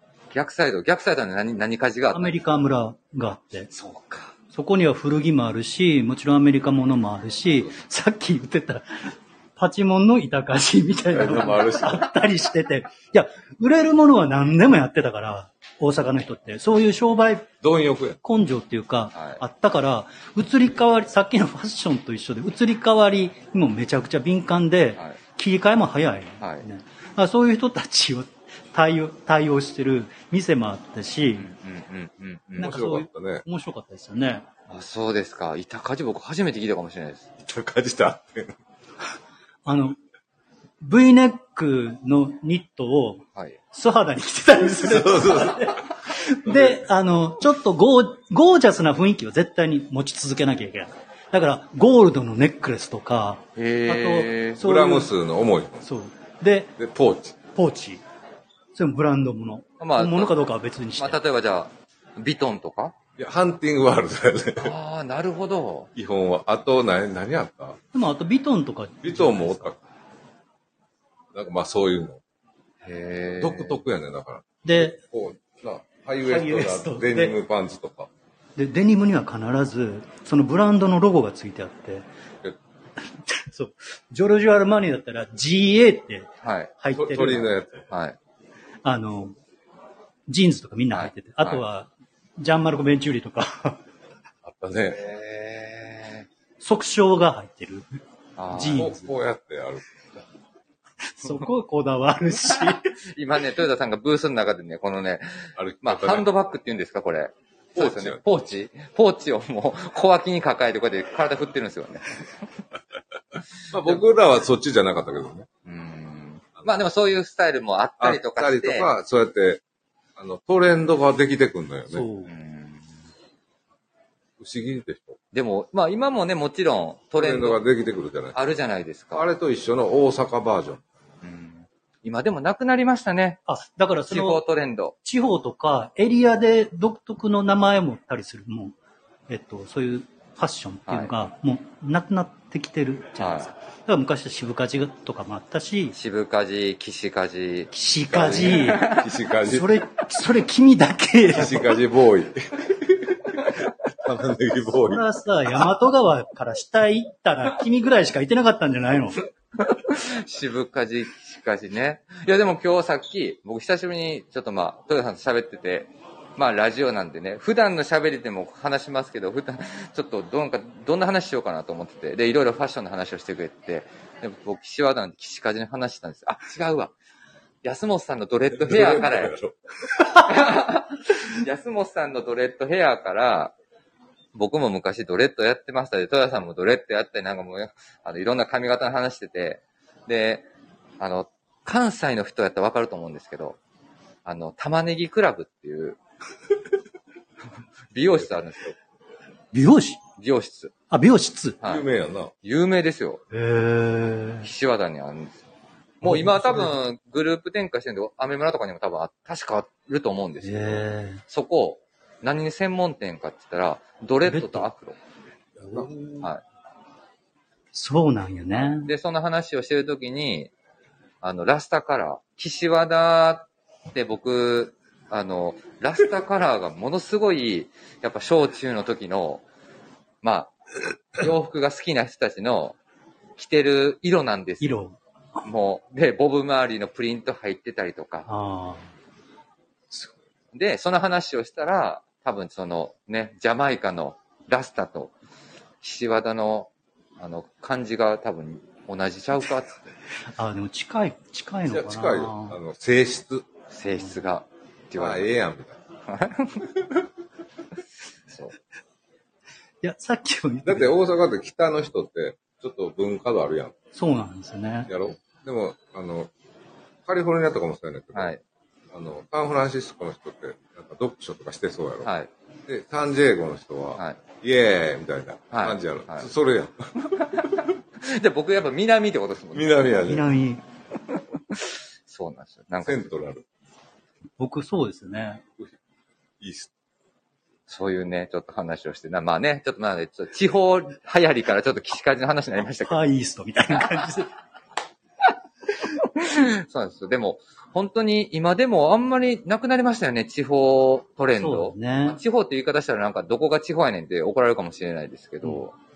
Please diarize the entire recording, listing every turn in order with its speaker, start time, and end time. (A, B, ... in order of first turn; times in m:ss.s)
0:00.3-0:02.3 A
0:02.1-0:03.7 B
0:03.7-0:04.3 A
0:04.5-0:17.5 B
0:11.1-0:12.1 C
0:17.6-0:18.2 C
0:18.2-0:31.5 B
0:19.1-0:19.4 A
0:26.4-0:26.6 A
0:31.4-0:32.8 A
0:32.6-0:33.4 C
0:32.6-0:34.4 B
0:34.7-0:37.3 A
0:37.4-0:38.6 C
0:39.6-0:40.0 B
0:40.8-0:55.1 B
0:44.7-0:45.8 C
0:46.4-0:46.8 C
0:53.6-0:54.6 A
0:54.6-0:55.8 C
0:55.8-0:56.7 B
0:56.8-0:57.4 C
0:57.6-0:58.0 B
0:58.7-1:01.2 B
0:59.8-1:00.4 A
1:01.0-1:02.9 A
1:03.2-1:04.7 C
1:04.6-1:05.9 A
1:06.0-1:07.8 C
1:07.9-1:09.7 B
1:09.0-1:09.8 C
1:11.3-1:12.2 C
1:12.8-1:13.8 A
1:13.4-1:18.1 C
1:14.6-1:15.0 B
1:16.2-1:17.3 B
1:18.6-1:22.0 B
1:23.0-1:27.5 B
1:26.4-1:26.7 A
1:26.9-1:27.8 C
1:27.9-1:28.2 A
1:28.8-1:29.4 B
1:30.3-1:33.8 B
1:30.9-1:31.6 A
1:34.4-1:35.0 C
1:34.9-1:36.3 A
1:36.6-1:38.0 B
1:38.4-1:38.9 A
1:38.5-1:39.0 B
1:38.7-1:40.2 C
1:41.0-1:42.9 B
1:42.5-1:52.3 A
1:45.6-1:46.3 C
1:47.8-1:48.2 C
1:53.7-1:55.5 C
1:55.6-1:58.9 A
1:58.0-1:59.6 C
2:00.2-2:02.0 C
2:01.9-2:02.3 B
2:02.3-2:03.0 A
2:04.4-2:05.2 C
2:05.3-2:07.6 A
2:07.2-2:08.4 C
2:08.3-2:09.3 A
2:09.1-2:10.8 C
2:11.2-2:13.4 A
2:13.5-2:14.4 B
2:14.1-2:14.9 A
2:15.0-2:18.8 B
2:19.3-2:26.0 B
2:20.9-2:21.1 A
2:23.2-2:23.5 A
2:26.0-2:29.1 A
2:27.7-2:31.7 B
2:28.1-2:29.8 C
2:31.3-2:35.0 C
2:34.8-2:39.2 B
2:39.6-2:56.9 A
2:57.6-2:59.3 A
2:58.5-2:59.5 C
3:00.1-3:03.5 A
3:04.3-3:10.5 A
3:11.0-3:13.6 A
3:14.2-3:16.0 A
3:17.9-3:18.8 A
3:19.5-3:20.0 B
3:20.2-3:20.7 A
3:20.9-3:21.6 B
3:21.6-3:22.3 C
3:22.4-3:23.2 A
3:23.3-3:24.5 B
3:24.4-3:25.4 A
3:26.0-3:35.0 A
3:26.0-3:26.7 B
3:30.4-3:31.2 B
3:34.2-3:34.7 B
3:35.6-3:36.0 C
3:35.6-3:36.3 B
3:37.7-3:38.9 B
3:38.5-3:40.5 A
3:41.2-3:49.4 A
3:50.2-3:50.5 A
3:51.1-3:52.8 A
3:53.4-3:54.8 A
3:54.6-3:55.4 B
3:55.4-3:58.3 A
3:58.3-3:58.9 B
4:00.5-4:05.1 A
4:05.8-4:09.9 A
4:10.3-4:12.6 B
4:11.7-4:13.5 C
4:13.7-4:15.2 A
4:15.0-4:15.8 C
4:16.1-4:17.0 A
4:18.3-4:18.5 A
4:19.8-4:20.9 B
4:20.6-4:23.7 C
4:23.9-4:24.9 B
4:24.9-4:26.3 C
4:27.0-4:28.3 C
4:28.1-4:28.4 A
4:28.9-4:32.1 C
4:32.0-4:32.3 A
4:32.7-4:37.1 C
4:35.5-4:36.3 A
4:37.1-4:39.7 A
4:39.5-4:40.3 C
4:40.0-4:40.6 B
4:41.5-4:43.1 A
4:42.8-4:43.4 C
4:44.4-4:45.4 B
4:46.4-4:46.7 C
4:47.7-4:53.0 A
4:52.8-4:54.3 B
4:56.0-5:05.7 A
5:01.4-5:02.2 B